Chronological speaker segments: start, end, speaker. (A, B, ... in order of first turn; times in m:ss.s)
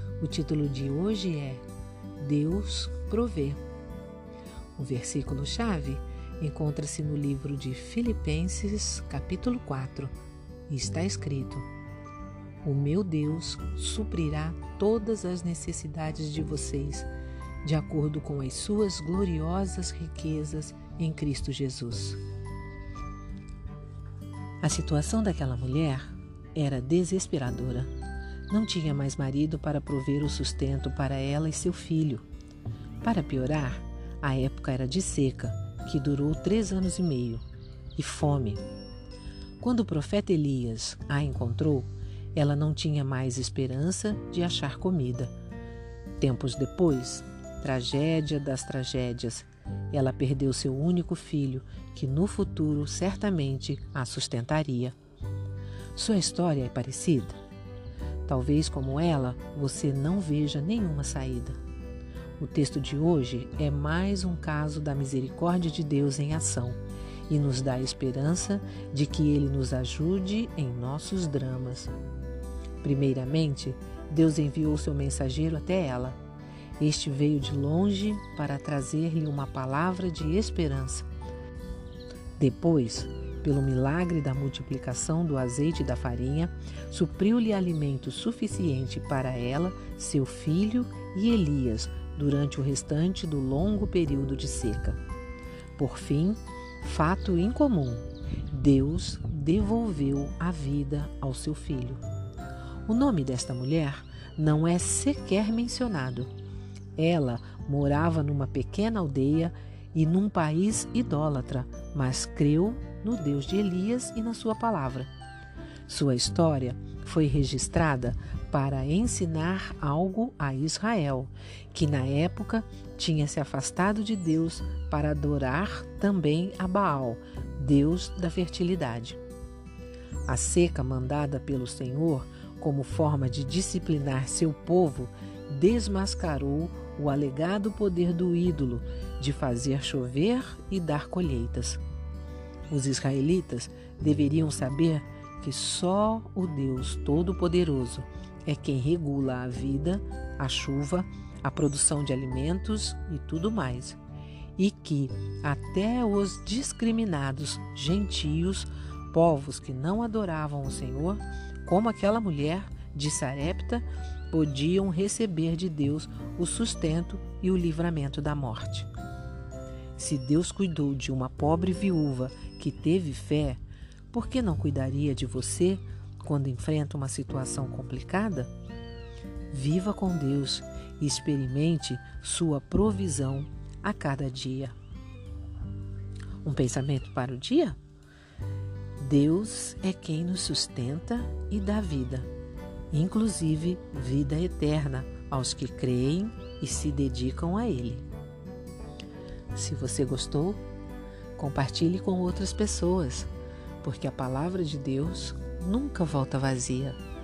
0:00.2-0:01.6 A
0:02.2-0:03.6 A
0:04.8-0:10.1 A
0:10.7-0:11.7 A
0:12.6-0:17.1 A
0:17.6-0:22.2 A
0:24.6-0:27.9 A
0:28.5-0:32.2 A
0:33.0-0:37.4 A
0:38.0-0:38.6 A
0:39.6-0:45.3 A
0:46.2-0:55.0 A
0:55.9-0:57.4 A
0:58.2-1:01.6 A
1:02.4-1:11.9 A
1:12.8-1:16.2 A
1:16.8-1:21.1 A
1:22.4-1:35.0 A
1:35.8-1:42.0 A
1:42.9-1:46.3 A
1:47.0-1:55.1 A
1:55.9-2:09.2 A
2:10.3-2:21.8 A
2:22.7-2:34.0 A
2:34.6-2:48.9 A
2:50.0-2:53.6 A
2:54.1-2:58.5 A
2:59.5-3:04.8 A
3:06.4-3:07.8 A
3:09.0-3:12.3 A
3:12.9-3:18.0 A
3:19.5-3:20.6 A
3:21.4-3:23.3 A
3:23.8-3:27.0 A